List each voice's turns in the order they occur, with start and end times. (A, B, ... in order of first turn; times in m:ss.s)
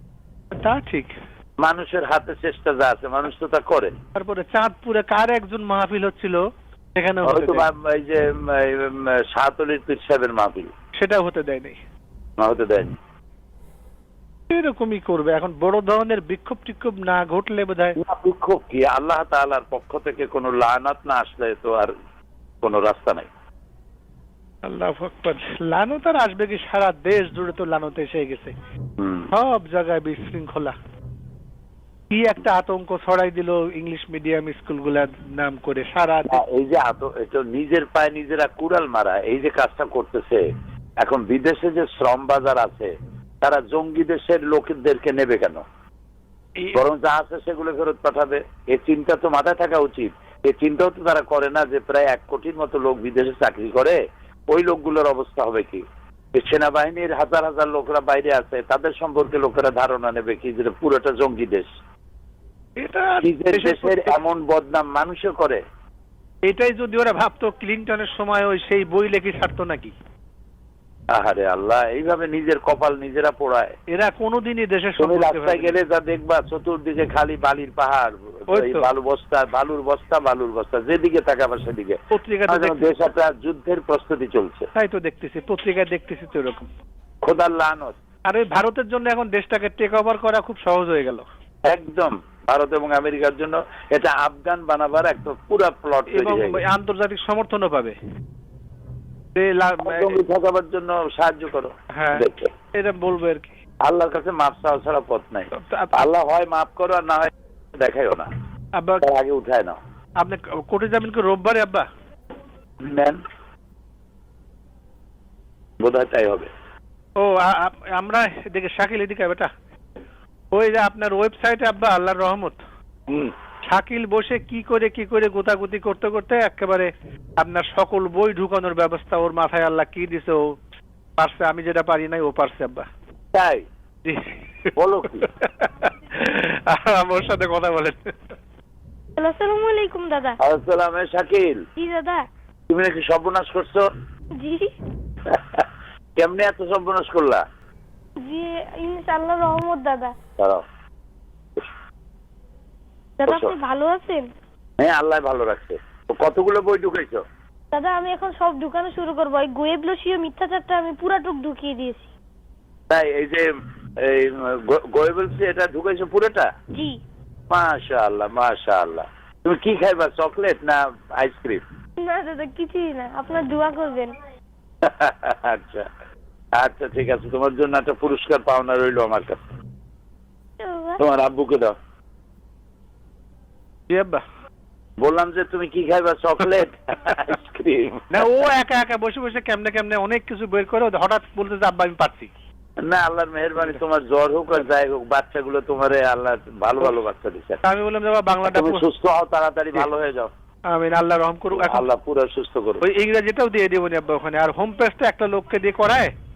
0:00.6-0:01.1 A
0:01.6-0:03.9 B
0:04.2-0:06.4 A
0:07.0-0:07.7 A
0:07.2-0:10.7 B
0:11.0-0:11.8 A
0:12.4-0:13.0 B
0:14.5-0:18.0 A
0:18.0-0:21.9 B
0:22.6-0:23.3 B
0:24.6-0:28.5 A
0:29.0-0:29.3 B
0:29.3-0:30.8 A
0:32.1-0:36.4 A
0:36.3-0:40.4 B
0:41.0-0:45.6 B
0:46.7-0:54.0 B
0:54.5-1:01.7 B
1:02.8-1:04.2 A
1:03.2-1:05.6 B
1:06.4-1:09.9 A
1:11.1-1:13.8 B
1:13.9-1:15.7 A
1:15.0-1:24.7 B
1:18.5-1:18.9 A
1:22.1-1:22.9 A
1:24.8-1:26.7 A
1:27.2-1:28.0 B
1:28.3-1:31.2 A
1:31.6-1:36.6 B
1:36.1-1:38.0 A
1:39.4-1:40.2 A
1:39.8-1:42.5 B
1:41.9-1:43.5 A
1:43.8-1:48.3 B
1:45.6-1:45.9 A
1:48.8-1:49.0 A
1:49.0-1:49.8 B
1:50.2-1:51.9 A
1:52.8-1:53.2 B
1:55.8-1:56.5 B
1:57.2-1:59.5 A
2:00.5-2:02.6 A
2:03.1-2:03.3 B
2:03.6-2:10.6 A
2:11.2-2:12.9 A
2:13.3-2:13.6 B
2:14.0-2:14.3 A
2:14.8-2:15.3 B
2:15.2-2:18.1 A
2:19.2-2:20.4 C
2:20.4-2:21.6 B
2:21.8-2:22.3 C
2:22.7-2:23.9 B
2:24.4-2:24.7 C
2:25.2-2:27.4 B
2:28.2-2:30.1 C
2:30.4-2:30.6 B
2:33.2-2:34.3 C
2:33.2-2:33.5 B
2:34.8-2:37.2 B
2:37.7-2:42.1 C
2:42.9-2:43.5 B
2:44.0-2:46.5 B
2:46.7-2:47.0 C
2:47.5-2:51.6 B
2:52.0-2:54.1 C
2:54.8-2:55.9 B
2:56.5-2:59.4 B
3:00.6-3:01.0 C
3:01.0-3:01.8 B
3:03.9-3:04.2 A
3:05.0-3:08.2 B
3:08.1-3:12.3 A
3:12.8-3:17.6 B
3:17.6-3:18.8 A
3:18.4-3:20.3 B
3:20.7-3:21.8 A
3:21.5-3:22.8 B
3:22.8-3:26.1 A